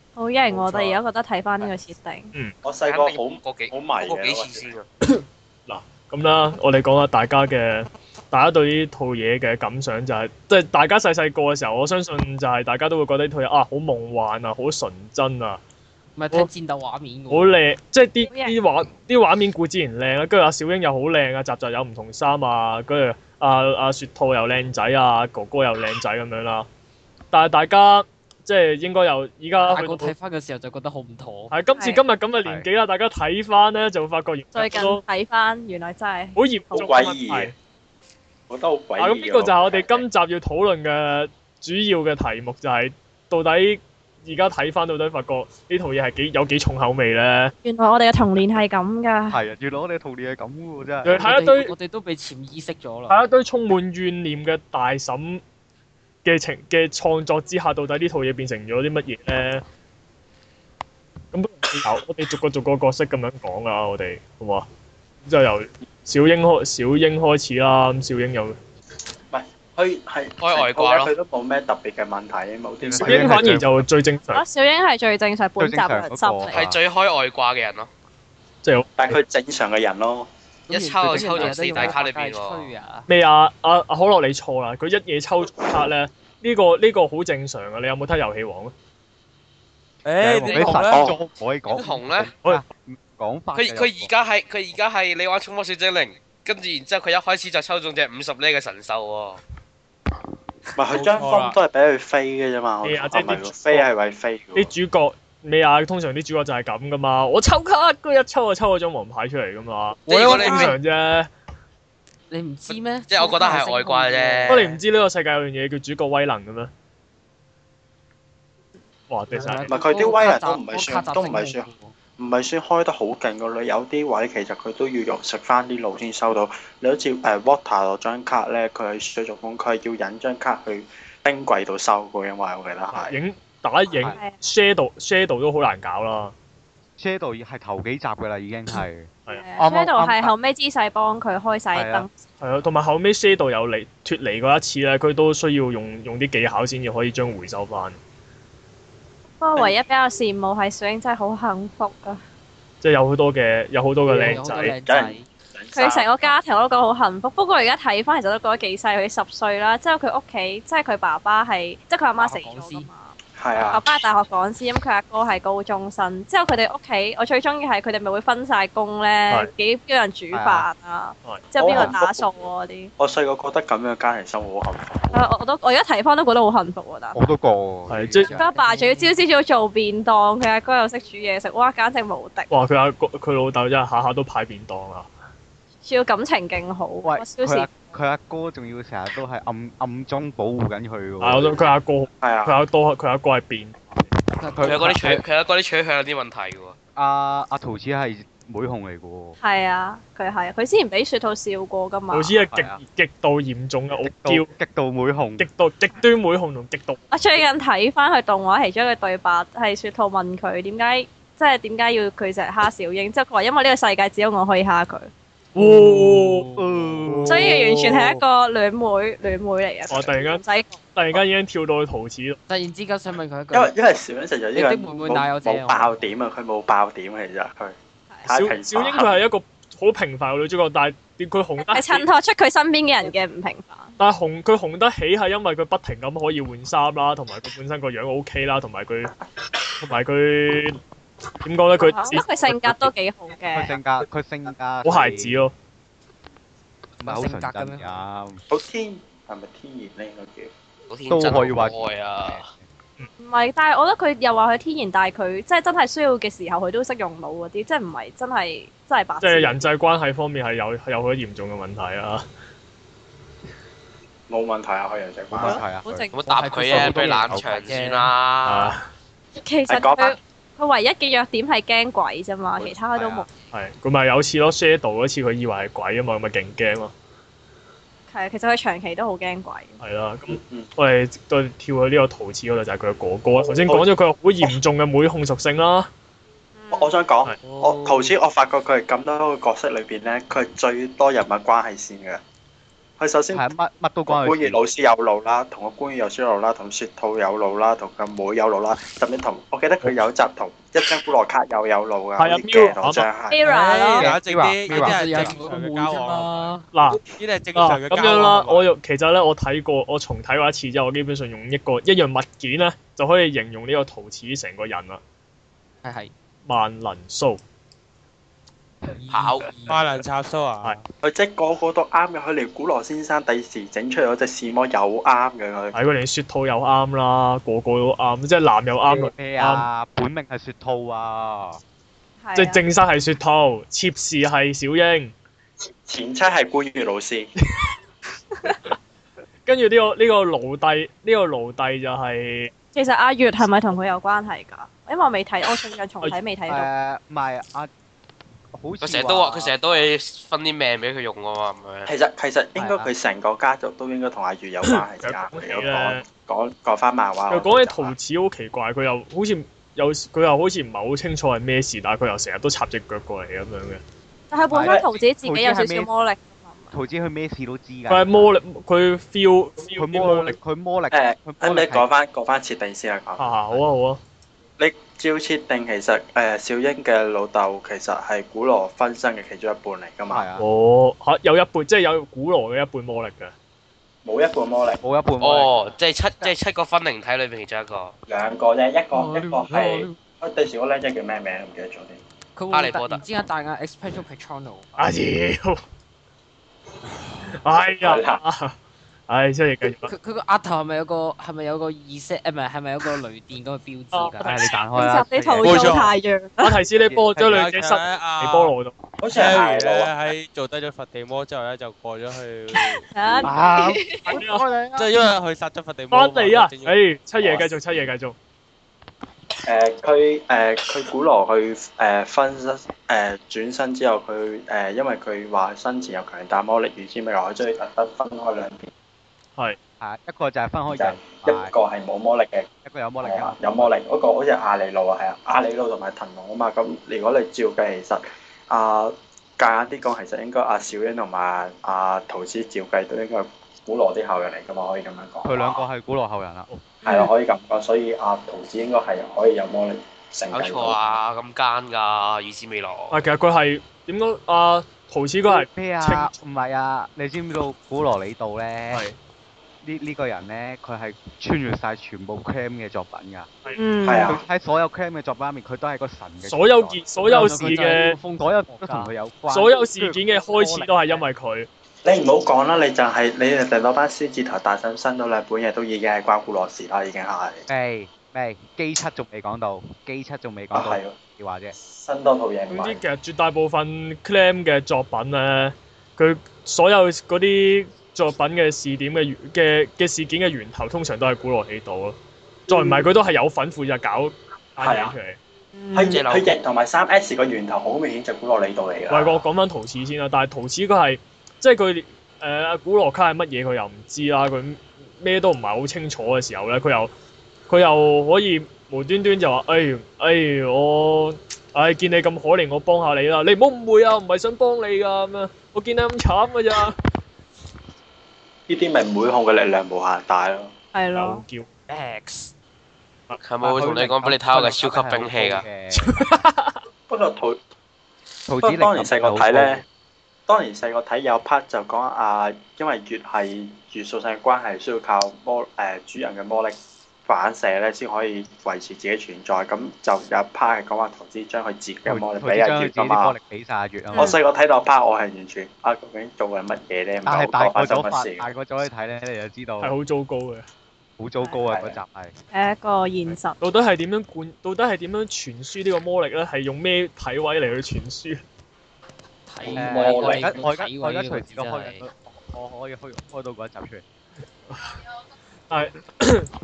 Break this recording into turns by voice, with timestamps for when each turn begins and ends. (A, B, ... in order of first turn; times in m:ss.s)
0:00.2-0:02.3 A
0:02.6-0:04.7 B
0:02.9-0:04.9 C
0:05.0-0:15.6 D
0:16.2-0:17.6 E
0:17.3-0:26.7 D
0:18.3-0:18.6 A
0:27.3-0:30.1 D
0:29.7-0:31.5 E
0:31.5-0:35.0 D
0:31.8-0:32.0 A
0:34.5-0:36.4 A
0:36.4-0:37.6 D
0:36.7-0:37.5 B
0:38.5-0:40.0 B
0:39.0-0:47.5 D
0:47.6-0:49.4 A
0:49.3-0:51.2 F
0:51.0-0:51.7 D
0:51.1-0:53.2 E
0:53.1-0:55.4 D
0:56.2-0:59.6 D
1:01.3-1:04.7 D
1:05.2-1:08.6 D
1:09.3-1:13.4 B
1:10.4-1:11.1 C
1:12.8-1:13.8 F
1:13.0-1:14.4 D
1:14.3-1:16.6 A
1:15.6-1:16.8 F
1:16.5-1:17.9 C
1:18.6-1:19.2 D
1:19.0-1:20.3 B
1:20.7-1:23.1 E
1:20.7-1:22.7 C
1:21.0-1:22.0 F
1:23.1-1:28.7 D
1:30.0-1:31.1 G
1:30.2-1:34.1 F
1:30.5-1:30.7 C
1:30.9-1:31.2 B
1:31.7-1:32.3 C
1:33.6-1:39.4 C
1:40.8-1:44.7 B
1:40.9-1:41.6 G
1:42.8-1:43.9 D
1:44.6-1:51.3 D
1:50.1-1:50.8 C
1:50.2-1:50.8 B
1:52.3-1:54.8 E
1:52.7-1:54.7 C
1:54.5-1:56.7 D
1:59.1-1:59.8 D
1:59.3-2:01.9 E
1:59.7-2:13.2 B
2:12.9-2:16.3 D
2:14.0-2:14.5 A
2:17.0-2:20.3 F
2:19.3-2:22.2 A
2:21.7-2:22.1 F
2:22.4-2:28.0 D
2:29.4-2:32.2 A
2:32.8-2:34.8 D
2:34.1-2:35.3 E
2:34.4-2:36.4 B
2:35.7-2:52.9 A
2:42.2-2:42.9 E
2:43.4-2:43.8 B
2:50.3-2:50.7 F
2:51.2-2:51.8 D
2:51.6-2:52.5 B
2:53.0-2:55.3 B
2:55.1-2:57.2 A
2:57.1-2:58.5 F
2:57.9-2:58.3 D
2:58.2-2:59.2 E
2:58.3-3:02.5 A
3:02.5-3:05.1 D
3:05.8-3:07.8 A
3:07.0-3:11.5 F
3:11.2-3:13.8 D
3:12.2-3:12.6 B
3:14.4-3:15.0 E
3:14.4-3:15.2 F
3:14.6-3:16.8 C
3:17.0-3:19.4 F
3:19.4-3:22.4 A
3:22.1-3:24.5 D
3:22.5-3:22.8 F
3:23.9-3:25.5 F
3:25.4-3:27.0 D
3:27.1-3:35.1 A
3:35.6-3:36.5 D
3:35.6-3:37.0 E
3:36.6-3:37.7 F
3:37.1-3:38.0 D
3:37.3-3:40.8 A
3:39.9-3:40.4 D
3:41.0-3:42.4 D
3:42.5-3:43.7 E
3:43.5-3:47.8 B
3:44.5-3:46.0 E
3:48.3-3:49.2 B
3:48.3-3:52.1 D
3:51.6-3:53.9 A
3:54.0-3:59.1 D
3:59.8-4:00.8 D
4:01.4-4:02.8 D
4:01.8-4:03.8 A
4:03.5-4:05.4 F
4:04.8-4:05.5 D
4:07.0-4:08.0 E
4:07.0-4:08.4 F
4:08.5-4:10.5 B
4:10.9-4:12.5 C
4:11.1-4:12.6 F
4:13.2-4:19.6 A
4:19.2-4:22.2 D
4:24.3-4:25.7 B
4:25.3-4:26.1 F
4:25.4-4:26.2 A
4:26.1-4:28.8 C
4:26.2-4:28.1 E
4:26.6-4:27.5 F
4:28.4-4:28.9 D
4:29.4-4:33.3 A
4:29.7-4:30.2 B
4:33.0-4:33.3 F
4:33.5-4:36.9 D
4:38.1-4:39.8 A
4:39.8-4:45.9 D
4:40.4-4:40.7 B
4:43.5-4:43.9 B
4:46.6-4:47.0 A
4:46.7-4:52.2 B
4:47.4-4:48.1 E
4:53.0-4:53.5 B
4:53.3-4:54.6 F
4:54.1-5:03.4 B
5:02.2-5:03.1 D
5:03.3-5:04.1 A
5:03.4-5:06.5 G
5:04.0-5:05.3 F
5:04.7-5:06.7 E
5:06.7-5:07.0 D
5:07.1-5:08.7 G
5:07.6-5:15.0 D
5:15.8-5:16.1 E
5:16.5-5:17.4 D
5:18.9-5:19.9 E
5:19.1-5:19.5 C
5:19.7-5:20.9 G
5:21.0-5:25.8 B
5:25.7-5:29.7 D
5:28.9-5:31.6 F
5:32.2-5:32.6 A
5:32.4-5:35.1 D
5:35.9-5:37.3 B
5:39.5-5:42.5 D
5:42.7-5:46.7 A
5:46.5-5:47.7 F
5:48.5-5:49.6 F
5:48.8-5:51.9 C
5:51.9-5:58.0 B
5:52.6-5:52.9 F
5:54.7-5:56.0 D
5:57.3-6:03.8 D
6:04.3-6:06.8 A
6:04.5-6:05.9 F
6:04.7-6:04.9 B
6:06.7-6:08.4 F
6:07.9-6:10.4 D
6:09.8-6:11.9 F
6:10.9-6:13.3 B
6:13.2-6:14.0 D
6:14.6-6:20.3 B
6:20.1-6:20.5 F
6:20.4-6:23.3 D
6:24.0-6:24.8 B
6:24.8-6:25.7 F
6:25.2-6:27.9 C
6:28.1-6:32.0 B
6:28.9-6:30.0 E
6:32.4-6:34.7 E
6:32.5-6:33.1 C
6:34.8-6:35.6 D
6:37.3-6:38.6 D
6:37.8-6:38.2 B
6:39.1-6:39.9 D
6:39.8-6:44.5 E
6:43.9-6:44.5 D
6:44.2-6:45.8 F
6:44.6-6:46.6 A
6:45.4-6:45.9 G
6:46.4-6:48.7 D
6:46.8-6:47.5 F
6:47.3-6:48.5 G
6:49.0-6:50.1 B
6:49.1-6:52.8 G
6:52.9-6:54.2 A
6:53.2-6:54.9 F
6:54.1-6:54.4 D
6:54.8-6:56.8 G
6:55.9-6:58.2 D
6:57.2-6:57.5 B
6:59.4-7:08.7 B
7:09.8-7:11.5 F
7:10.7-7:12.5 B
7:12.6-7:13.7 F
7:13.0-7:25.6 B
7:25.2-7:26.5 F
7:26.5-7:27.0 D
7:26.8-7:31.0 B
7:30.3-7:33.0 C
7:32.9-7:36.1 D
7:35.3-7:38.8 F
7:39.6-7:43.3 F
7:43.6-7:44.2 A
7:43.8-7:44.2 B
7:44.0-7:46.8 F
7:46.2-7:48.0 D
7:47.0-7:48.9 E
7:48.2-7:51.0 F
7:49.3-7:51.5 D
7:51.8-7:57.4 B
7:57.5-8:01.6 F
8:00.5-8:01.0 B
8:01.6-8:02.8 B
8:02.5-8:12.0 D
8:12.5-8:15.2 D
8:14.6-8:14.9 B
8:15.6-8:16.0 A
8:15.7-8:19.2 B
8:15.9-8:16.3 C
8:18.9-8:26.9 D
8:27.5-8:36.8 D
8:38.5-8:40.5 B
8:40.7-8:41.2 A
8:41.0-8:41.5 D
8:41.7-8:42.3 E
8:43.2-8:45.4 C
8:43.4-8:46.2 F
8:45.7-8:46.6 D
8:46.9-8:47.4 B
8:48.3-8:49.6 F
8:48.4-8:49.6 B
8:50.3-9:03.2 B
9:01.9-9:04.2 F
9:03.9-9:04.2 A
9:04.0-9:08.3 B
9:07.0-9:09.8 F
9:09.6-9:10.5 D
9:11.0-9:12.1 F
9:11.4-9:11.8 B
9:12.3-9:13.4 A
9:13.4-9:18.2 D
9:19.3-9:21.9 E
9:19.4-9:20.5 B
9:19.5-9:23.8 F
9:24.5-9:24.8 D
9:25.5-9:26.3 D